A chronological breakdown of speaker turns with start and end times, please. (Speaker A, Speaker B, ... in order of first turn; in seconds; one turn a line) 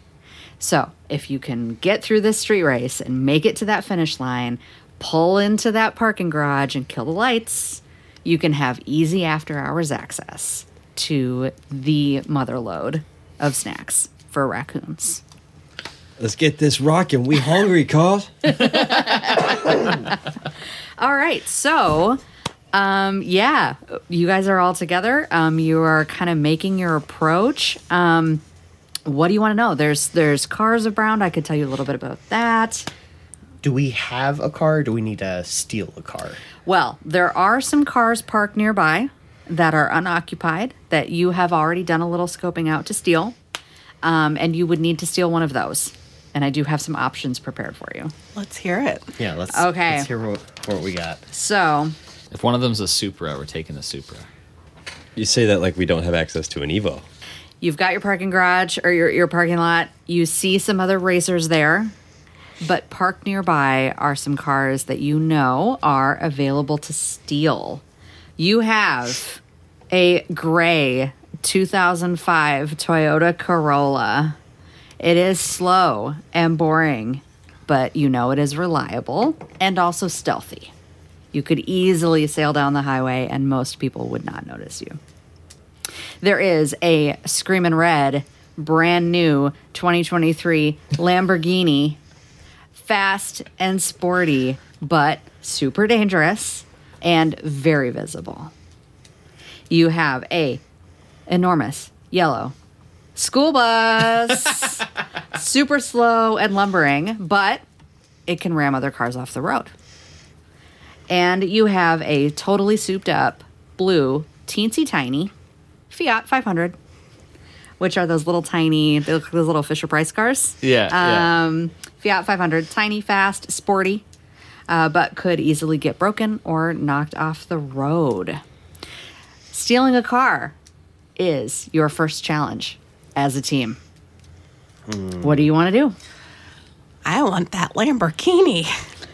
Speaker A: 0.6-15.2
Speaker B: 16.2-19.4
Speaker A: 18.5-19.9
Speaker A: 21.0-22.2
Speaker A: 22.7-28.4
Speaker A: 29.1-32.9
Speaker C: 33.6-36.4
Speaker A: 36.6-43.4
Speaker A: 44.0-48.1
Speaker D: 48.4-49.2
Speaker C: 49.2-51.2
Speaker A: 49.5-50.1
Speaker A: 51.3-51.9
Speaker E: 52.3-54.3
Speaker B: 55.2-57.0
Speaker A: 57.6-61.9
Speaker A: 62.6-67.8
Speaker A: 68.4-74.4
Speaker A: 75.0-80.7
Speaker A: 81.3-85.0
Speaker A: 86.2-92.0
Speaker A: 92.8-98.5
Speaker A: 99.7-100.6
Speaker A: 101.3-102.5
Speaker A: 103.2-107.6
Speaker A: 108.3-109.7
Speaker A: 111.1-115.3
Speaker A: 115.9-116.8
Speaker A: 117.8-124.0
Speaker E: 120.6-121.3
Speaker A: 124.7-128.4
Speaker A: 129.5-130.6
Speaker A: 131.2-133.8
Speaker C: 134.9-135.3
Speaker A: 135.2-135.9
Speaker D: 137.1-138.7